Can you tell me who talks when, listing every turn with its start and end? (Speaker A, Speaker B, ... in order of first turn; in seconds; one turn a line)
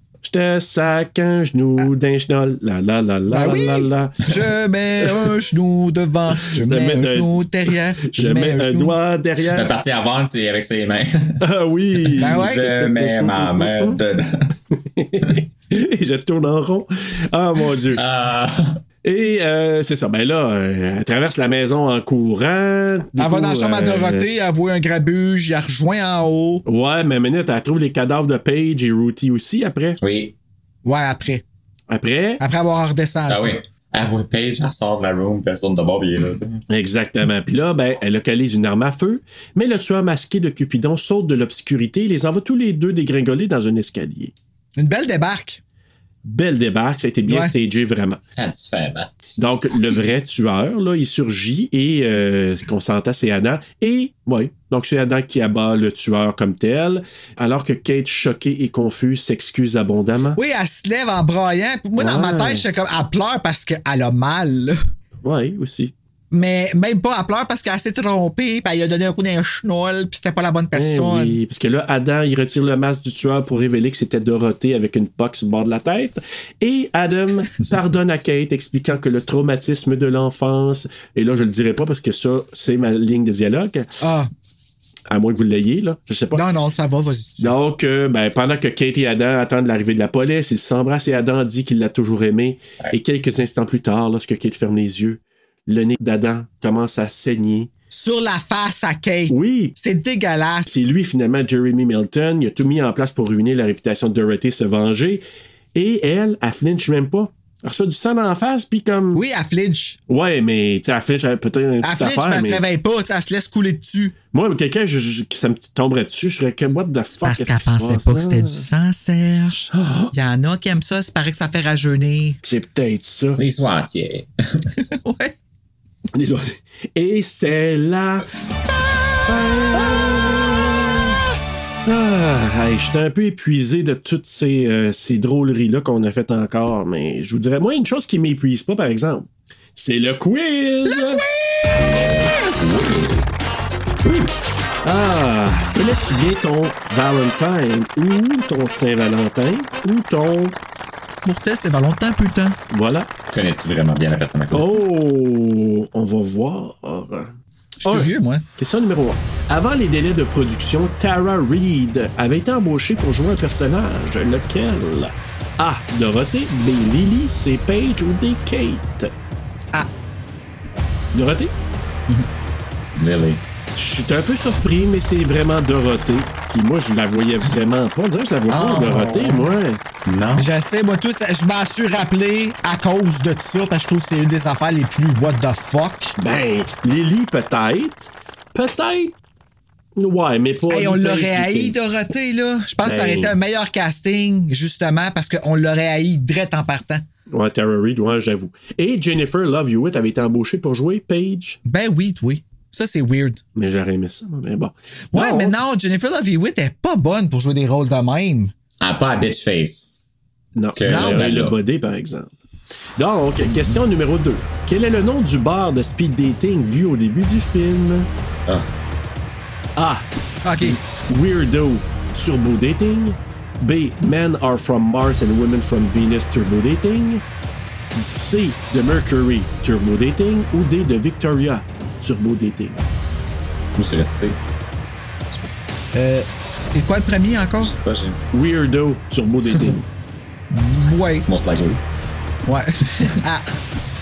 Speaker A: 0.2-4.4
Speaker B: 3.3-8.9
Speaker A: 5.0-5.4
Speaker A: 6.4-7.4
Speaker A: 8.0-9.7
Speaker C: 9.5-11.4
Speaker A: 11.4-14.0
Speaker C: 12.0-14.6
Speaker B: 12.2-12.8
Speaker A: 14.9-18.0
Speaker C: 17.9-18.8
Speaker A: 19.0-24.2
Speaker B: 23.2-26.6
Speaker A: 26.6-30.0
Speaker C: 30.0-30.3
Speaker B: 30.8-31.4
Speaker A: 31.9-32.4
Speaker B: 32.4-33.5
Speaker C: 33.3-36.6
Speaker A: 36.7-44.3
Speaker B: 44.8-45.6
Speaker A: 46.2-48.2
Speaker B: 47.2-47.5
Speaker C: 48.3-49.1
Speaker A: 49.4-60.4
Speaker B: 60.4-64.8
Speaker A: 62.0-62.6
Speaker A: 65.2-65.9
Speaker B: 66.3-71.4
Speaker A: 70.7-83.9
Speaker B: 84.0-84.3
Speaker A: 85.1-86.4
Speaker B: 86.3-87.5
Speaker A: 87.4-97.7
Speaker B: 97.9-100.7
Speaker A: 99.3-99.8
Speaker A: 100.7-105.2
Speaker A: 105.7-109.2
Speaker B: 109.1-110.0
Speaker A: 110.1-112.6
Speaker B: 111.8-114.1
Speaker A: 114.3-118.7
Speaker B: 117.2-122.4
Speaker A: 119.7-120.1
Speaker A: 122.4-123.4
Speaker C: 123.3-124.7
Speaker B: 124.9-125.3
Speaker A: 126.1-128.3
Speaker A: 129.2-131.2
Speaker A: 131.8-141.2
Speaker B: 140.8-141.8
Speaker C: 141.8-143.6
Speaker B: 142.3-142.6
Speaker A: 144.0-150.6
Speaker B: 151.2-152.6
Speaker A: 152.7-153.1
Speaker C: 153.3-154.8
Speaker A: 154.5-157.3
Speaker B: 157.8-158.4
Speaker A: 157.8-169.1
Speaker A: 171.1-171.5
Speaker C: 172.9-173.4
Speaker A: 173.7-179.8
Speaker C: 178.5-180.5
Speaker B: 180.3-186.1
Speaker A: 186.2-189.1
Speaker A: 189.9-191.8
Speaker B: 190.7-197.0
Speaker A: 192.8-193.3
Speaker A: 197.3-201.6
Speaker B: 201.7-203.4
Speaker A: 203.6-205.6
Speaker B: 205.1-208.5
Speaker C: 208.8-210.0
Speaker A: 210.6-212.3
Speaker C: 210.7-211.6
Speaker B: 210.8-211.3
Speaker A: 213.0-218.1
Speaker A: 219.8-220.0
Speaker B: 220.4-220.8
Speaker A: 220.6-227.2
Speaker A: 227.9-232.8
Speaker C: 233.8-234.4
Speaker B: 235.9-237.7
Speaker C: 237.6-238.2
Speaker A: 238.3-239.9
Speaker B: 240.5-241.3
Speaker C: 241.3-241.8
Speaker B: 242.4-243.6